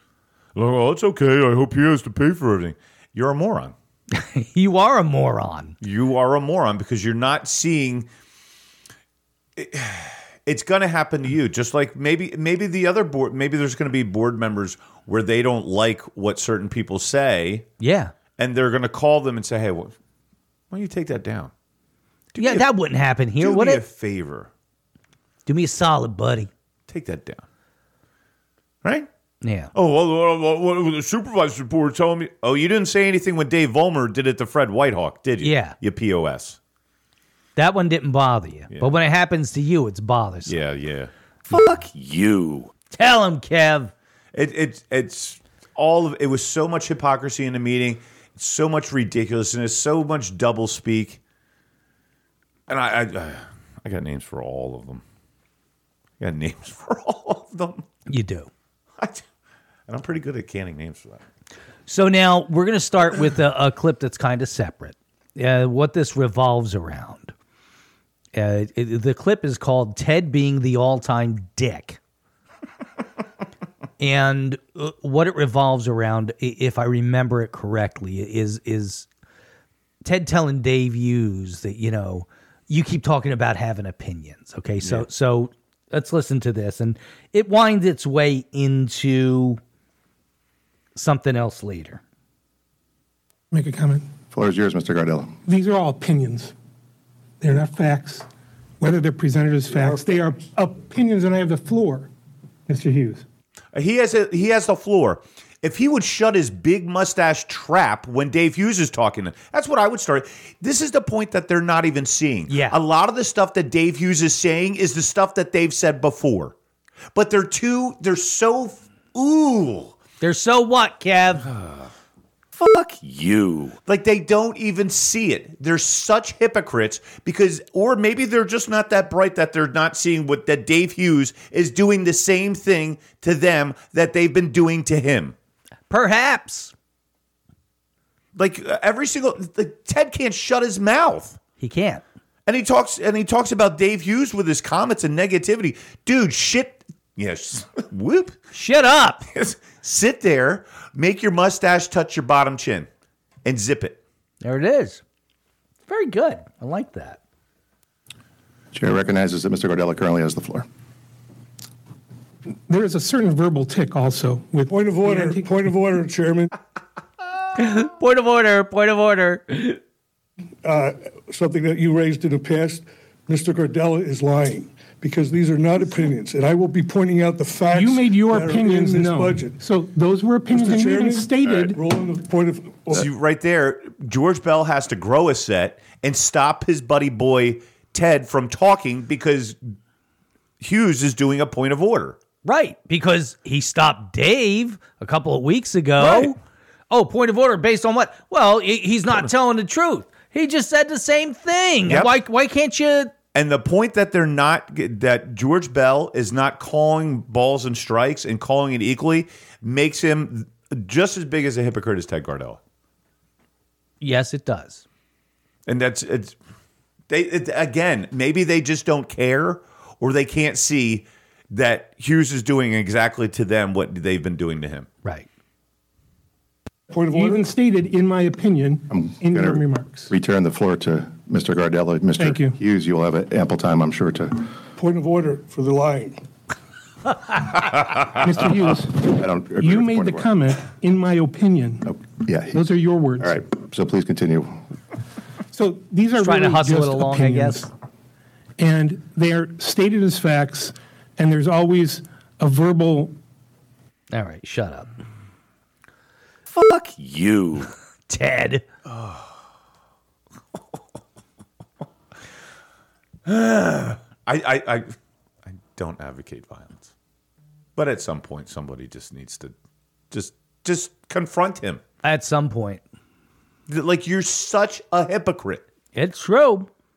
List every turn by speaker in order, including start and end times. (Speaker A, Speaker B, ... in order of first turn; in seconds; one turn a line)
Speaker A: 0.5-3.7
Speaker B: 4.1-5.8
Speaker A: 5.8-8.1
Speaker A: 9.6-17.6
Speaker B: 17.8-18.1
Speaker A: 18.4-19.9
Speaker A: 20.7-21.5
Speaker A: 22.3-22.7
Speaker B: 22.4-23.8
Speaker A: 23.4-24.5
Speaker B: 25.4-26.5
Speaker A: 26.9-27.4
Speaker A: 28.8-29.1
Speaker B: 29.4-29.7
Speaker A: 29.7-36.6
Speaker B: 35.4-35.8
Speaker B: 37.5-40.5
Speaker A: 38.7-39.0
Speaker A: 40.5-42.7
Speaker B: 42.9-43.9
Speaker A: 44.3-51.2
Speaker A: 52.7-55.0
Speaker A: 56.2-57.9
Speaker B: 58.1-58.5
Speaker A: 59.0-59.2
Speaker A: 59.9-61.2
Speaker B: 61.9-67.3
Speaker B: 68.3-72.0
Speaker B: 74.0-79.0
Speaker B: 80.0-89.6
Speaker B: 90.9-92.0
Speaker C: 93.5-94.1
Speaker D: 94.3-95.3
Speaker C: 95.5-96.5
Speaker C: 97.4-98.3
Speaker C: 98.8-102.1
Speaker E: 99.8-100.0
Speaker C: 102.7-103.2
Speaker A: 103.7-116.5
Speaker B: 112.5-112.8
Speaker A: 117.1-120.0
Speaker B: 120.2-121.5
Speaker A: 121.4-121.9
Speaker A: 122.5-135.3
Speaker B: 135.9-136.7
Speaker A: 138.3-141.4
Speaker B: 141.6-142.0
Speaker A: 142.4-148.4
Speaker B: 148.5-149.2
Speaker A: 149.3-152.9
Speaker A: 153.4-154.0
Speaker B: 154.4-155.0
Speaker B: 155.9-157.2
Speaker D: 158.7-160.7
Speaker C: 162.7-165.5
Speaker E: 164.7-166.5
Speaker B: 167.6-169.8
Speaker E: 170.6-179.6
Speaker C: 177.7-181.8
Speaker E: 180.5-183.0
Speaker A: 182.9-189.7
Speaker A: 190.6-192.2
Speaker B: 192.4-196.4
Speaker A: 196.0-196.3
Speaker B: 196.9-203.1
Speaker A: 201.8-202.1
Speaker A: 203.3-212.6
Speaker B: 214.0-214.8
Speaker A: 215.7-216.4
Speaker A: 217.1-224.9
Speaker E: 226.9-227.4
Speaker C: 227.1-230.1
Speaker D: 228.9-234.4
Speaker C: 232.2-232.6
Speaker E: 234.8-236.2
Speaker C: 238.1-241.8
Speaker D: 239.1-240.3
Speaker D: 241.9-242.6
Speaker C: 242.5-243.3
Speaker D: 243.2-244.6
Speaker C: 245.5-247.7
Speaker B: 246.2-247.7
Speaker C: 248.6-253.2
Speaker B: 254.1-254.9
Speaker A: 256.5-257.7
Speaker B: 258.1-258.6
Speaker A: 258.9-259.3
Speaker A: 263.2-264.9
Speaker A: 265.4-266.9
Speaker A: 267.8-269.5
Speaker A: 270.1-271.8
Speaker B: 272.0-272.8
Speaker A: 273.7-275.6
Speaker B: 275.9-276.7